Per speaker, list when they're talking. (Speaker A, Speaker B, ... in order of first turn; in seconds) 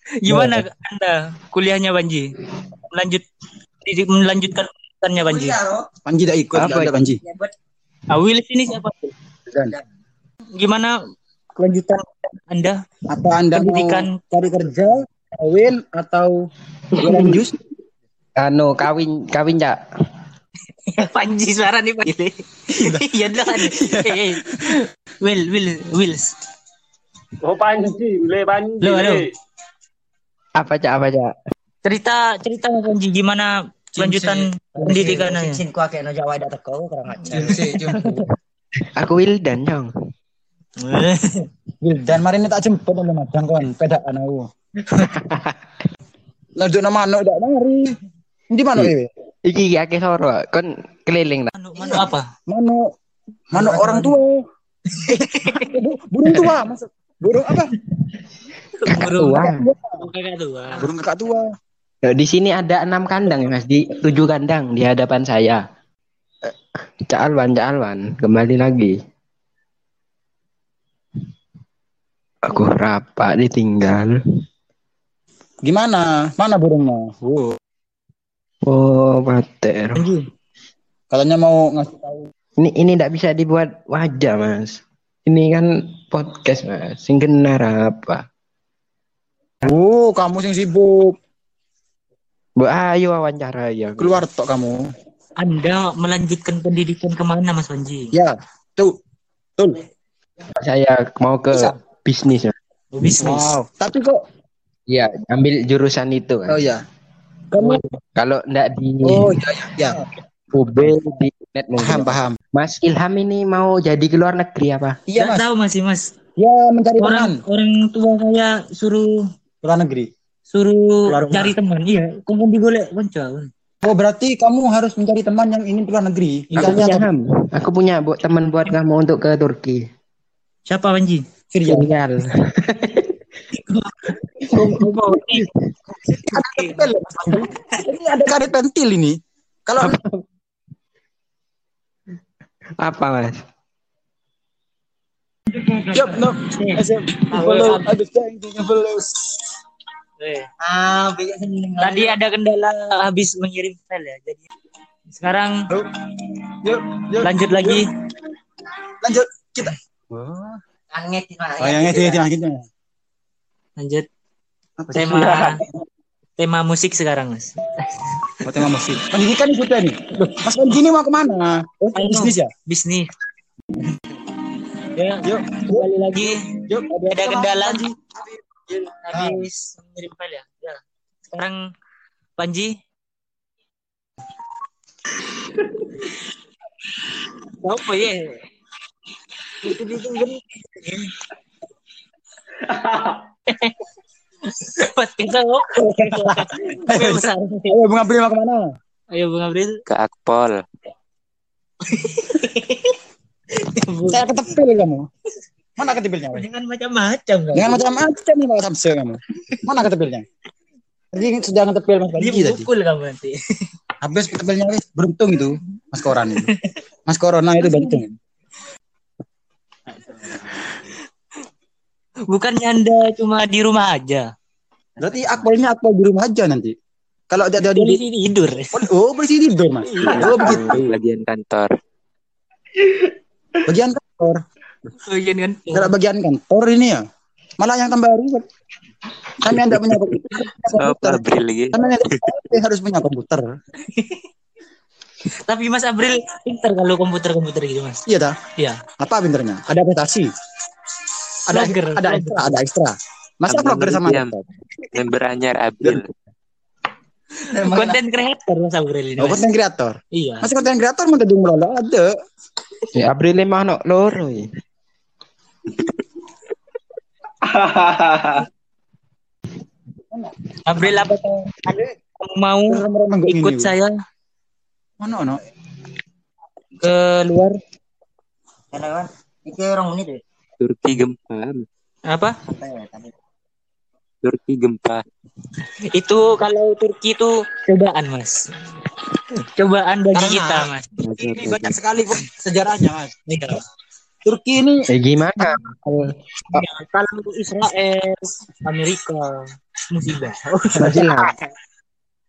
Speaker A: 0.2-2.3, 2.9-3.2, 3.8-5.6, 8.1-9.1, 10.6-11.0, 11.6-12.8, 13.5-14.2, 20.9-26.3, 28.8-29.2, 31.8-35.6, 40.8-41.5, 51.5-52.3, 53.5-54.2, 54.9-55.7, 58.8-60.9, 80.0-80.2, 95.4-98.1, 102.9-103.5, 107.5-107.8, 115.2-116.1, 117.0-119.2, 120.5-123.5, 126.5-127.0, 130.7-131.2, 133.5-137.8, 145.5-147.9, 150.2-150.5, 151.8-154.5, 155.1-155.7, 157.2-157.9, 163.8-164.1, 164.9-165.6, 166.4-168.3, 171.9-173.1, 174.8-176.4, 177.1-177.9, 179.0-181.7, 182.4-182.8, 187.6-188.4, 189.6-191.1, 193.5-193.8, 194.5-197.8, 199.1-199.8, 201.8-203.0, 203.5-204.5, 206.3-208.0, 212.2-213.4, 217.7-218.0, 219.9-220.7, 222.3-224.3, 227.6-228.7, 229.8-230.6, 235.0-235.9, 243.9-244.2, 245.5-248.0, 248.6-248.8, 251.5-252.6, 257.4-259.4, 260.1-260.5, 270.6-273.9, 276.8-277.6, 282.1-282.4, 285.9-288.4, 289.4-290.9, 293.3-293.6, 296.5-301.3
Speaker B: 0.3-0.6, 6.5-6.9, 17.0-17.4, 18.4-19.8, 30.6-31.3, 38.8-39.9, 44.9-45.6, 49.4-51.5, 58.9-59.7, 62.0-65.6, 67.1-69.0, 72.4-74.2, 78.6-80.0, 82.6-88.2, 92.6-94.2, 100.5-102.5, 104.9-106.6, 108.2-109.4, 110.5-115.0, 126.5-129.8, 131.7-133.2, 134.5-135.5, 139.8-140.2, 142.8-143.4, 262.9-264.4, 294.9-296.6, 300.7-301.3
Speaker C: 5.2-5.9, 34.7-37.7, 150.6-152.1, 160.9-162.2, 278.7-280.2, 282.5-283.1
Speaker D: 6.0-7.2, 9.5-9.7, 13.1-17.5, 22.7-24.6, 34.0-34.5, 37.3-38.2, 41.8-44.5, 46.6-48.0, 48.5-49.1, 51.8-52.9, 53.5-54.4, 55.4-57.7, 59.6-59.9, 60.8-61.5, 75.6-77.6, 81.1-82.3, 89.6-91.2, 94.0-94.9, 98.1-99.0, 99.6-99.8, 103.2-104.2, 106.5-106.8, 107.5-107.8, 109.0-110.0, 111.8-112.3, 115.1-115.4, 116.4-117.3, 119.6-120.1, 121.1-121.5, 123.8-127.0, 131.5-131.9, 136.3-139.9, 145.9-149.3, 155.7-156.0, 156.6-157.8, 159.0-160.6, 161.6-162.6, 164.8-165.6, 168.4-172.5, 175.2-177.9, 178.6-179.4, 195.7-198.7, 204.1-205.1, 205.8-206.4, 207.5-210.2, 211.1-212.7, 214.0-216.5, 217.1-218.1, 225.0-226.7, 227.3-228.0, 228.7-230.9, 233.7-234.4, 235.7-237.0, 237.6-238.5, 239.4-243.5, 248.1-248.4, 249.0-250.3, 251.5-254.4, 257.5-258.0, 259.2-262.1, 272.7-273.7, 275.0-275.4, 290.1-293.1, 294.2-294.9
Speaker E: 27.4-29.3, 192.7-193.2
Speaker F: 199.9-200.6, 230.1-231.7, 240.8-242.2, 253.5-254.3, 254.9-256.1, 280.6-281.6, 284.2-285.0, 291.0-291.8